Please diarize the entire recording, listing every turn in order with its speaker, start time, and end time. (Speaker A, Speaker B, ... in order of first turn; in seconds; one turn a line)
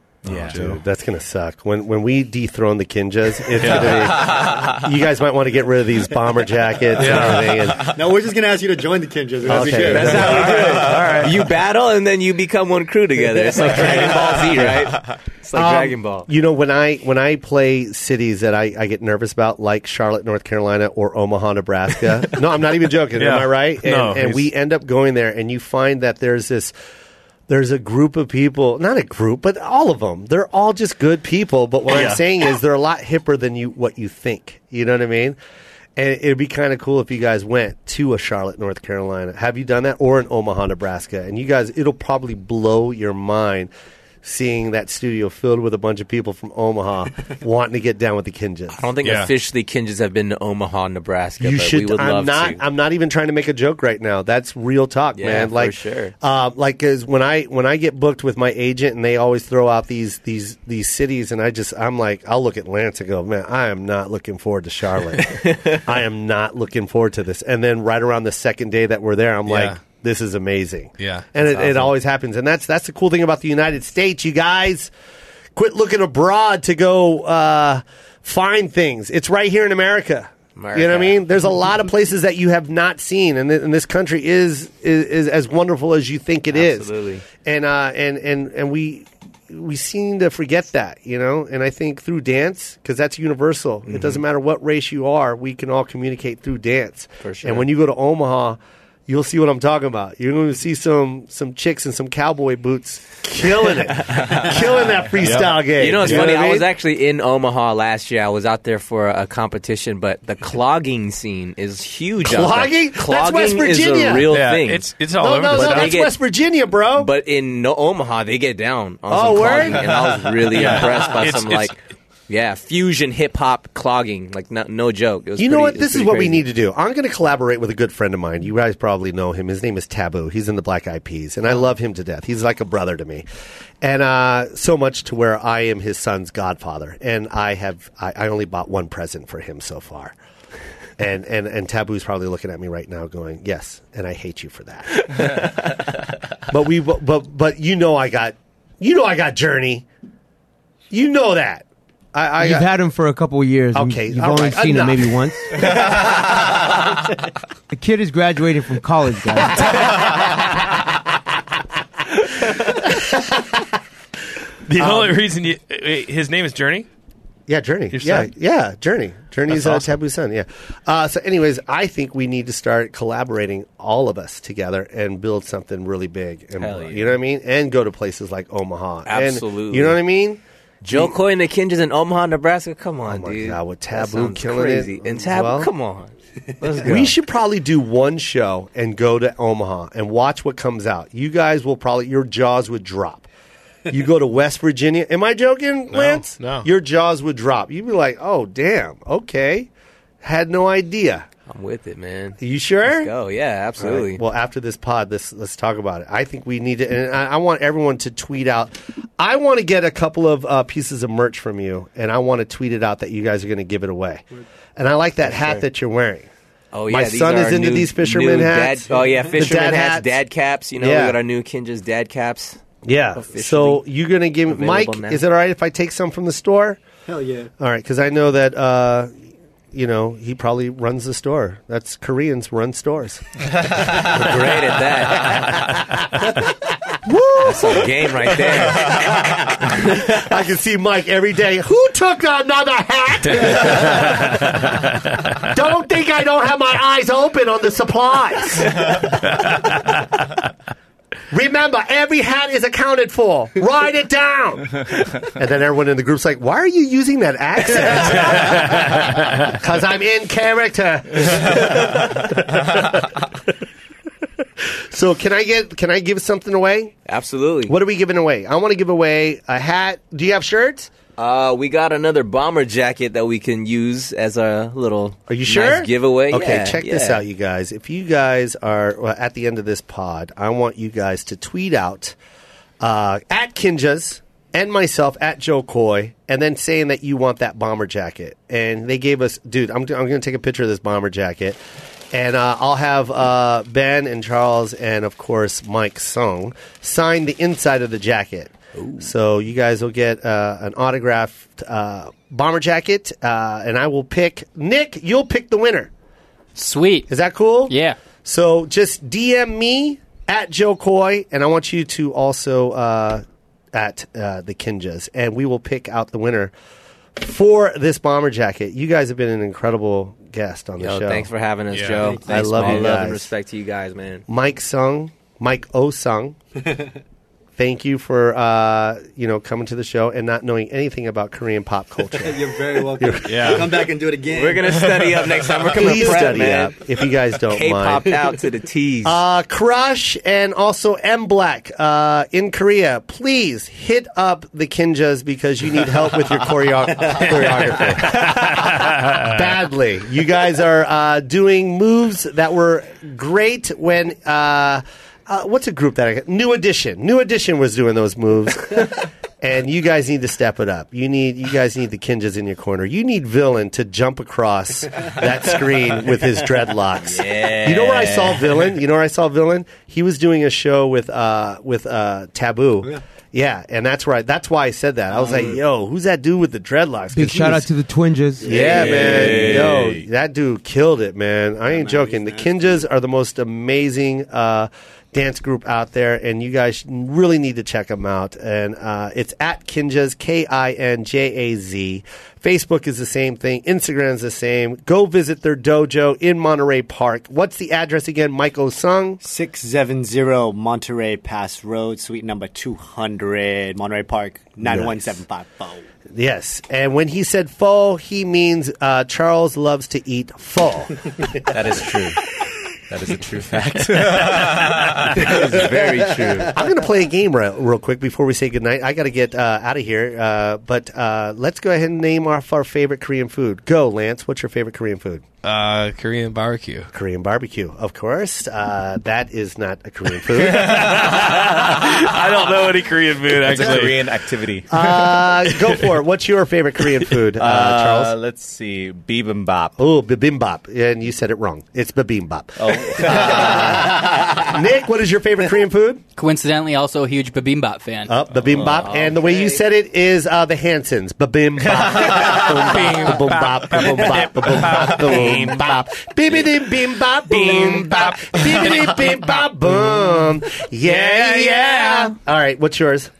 Speaker A: 0.2-0.8
Speaker B: 0.2-0.6
Speaker C: 0.5-8.0
Speaker A: 3.6-4.2
Speaker A: 7.0-7.7
Speaker D: 7.9-10.9
Speaker C: 9.4-10.4
Speaker E: 9.7-16.3
Speaker A: 10.0-11.3
Speaker C: 15.5-26.7
Speaker A: 23.2-24.4
Speaker C: 27.5-35.4
Speaker A: 31.9-32.2
Speaker C: 36.0-43.7
Speaker C: 44.2-48.8
Speaker E: 48.7-52.6
Speaker A: 49.0-49.3
Speaker C: 51.4-74.9
Speaker E: 55.1-56.1
Speaker E: 65.3-65.8
Speaker A: 69.5-69.8
Speaker A: 71.0-71.9
Speaker C: 75.5-86.9
Speaker E: 80.5-81.2
Speaker E: 86.5-87.2
Speaker C: 87.4-106.7
Speaker E: 93.9-94.2
Speaker E: 97.2-97.7
Speaker A: 105.2-105.5
Speaker E: 105.8-114.9
Speaker C: 112.2-114.3
Speaker A: 114.3-116.0
Speaker C: 115.2-117.1
Speaker E: 115.5-116.1
Speaker E: 117.0-121.8
Speaker C: 119.1-120.2
Speaker A: 120.5-121.7
Speaker E: 122.3-126.5
Speaker C: 125.4-133.2
Speaker C: 133.8-140.1
Speaker C: 141.0-145.4
Speaker C: 146.5-149.8
Speaker C: 150.9-152.7
Speaker F: 152.4-155.7
Speaker C: 153.7-155.7
Speaker F: 157.7-159.8
Speaker A: 164.7-166.9
Speaker C: 164.8-165.2
Speaker C: 167.5-181.1
Speaker A: 167.9-168.3
Speaker A: 169.5-169.8
Speaker B: 176.6-177.1
Speaker E: 179.1-180.0
Speaker E: 180.8-187.1
Speaker C: 183.1-185.7
Speaker C: 186.8-193.3
Speaker C: 193.9-199.7
Speaker A: 195.9-196.7
Speaker C: 200.2-201.3
Speaker E: 201.5-204.2
Speaker C: 202.4-203.1
Speaker C: 203.8-214.2
Speaker C: 214.8-216.3
Speaker E: 215.3-215.6
Speaker E: 216.7-222.6
Speaker C: 216.9-220.2
Speaker D: 218.9-219.3
Speaker C: 220.8-221.2
Speaker C: 222.8-226.8
Speaker E: 223.1-223.8
Speaker E: 224.5-225.2
Speaker D: 227.1-227.5
Speaker C: 227.6-229.1
Speaker C: 229.7-234.3
Speaker E: 233.8-235.7
Speaker C: 235.1-236.0
Speaker E: 237.4-240.1
Speaker C: 240.0-249.0
Speaker A: 243.8-244.4
Speaker C: 251.3-263.2
Speaker C: 264.6-266.9
Speaker E: 267.1-267.7
Speaker C: 267.6-270.9
Speaker E: 271.2-277.2
Speaker C: 275.3-282.1
Speaker C: 282.8-291.6
Speaker C: 292.1-305.9
Speaker G: 306.6-307.1
Speaker C: 307.1-316.5
Speaker G: 307.7-308.0
Speaker C: 317.1-321.3
Speaker E: 320.8-324.2
Speaker A: 321.7-322.1
Speaker D: 322.0-322.9
Speaker C: 322.2-323.3
Speaker C: 324.3-326.4
Speaker C: 327.6-333.6
Speaker D: 332.2-335.3
Speaker A: 333.2-333.7
Speaker E: 334.3-336.8
Speaker C: 335.7-338.1
Speaker E: 337.5-339.2
Speaker C: 339.0-377.7
Speaker D: 347.0-347.3
Speaker A: 348.1-349.2
Speaker B: 367.2-368.5
Speaker D: 375.2-375.6
Speaker F: 377.1-378.4
Speaker C: 378.4-399.2
Speaker E: 378.5-379.8
Speaker D: 378.5-379.4
Speaker B: 378.5-380.0
Speaker D: 381.7-382.8
Speaker D: 399.2-405.8
Speaker C: 404.6-405.2
Speaker C: 406.1-411.0
Speaker E: 411.5-412.2
Speaker E: 412.9-416.6
Speaker C: 416.5-425.2
Speaker A: 425.4-426.9
Speaker C: 426.9-431.1
Speaker A: 430.3-434.1
Speaker B: 433.4-434.9
Speaker C: 434.7-438.1
Speaker B: 437.4-439.7
Speaker C: 439.8-446.0
Speaker B: 442.6-444.1
Speaker G: 446.2-448.1
Speaker C: 448.1-463.1
Speaker B: 448.5-448.8
Speaker E: 448.6-449.6
Speaker A: 452.4-455.8
Speaker A: 457.3-459.2
Speaker A: 460.8-462.1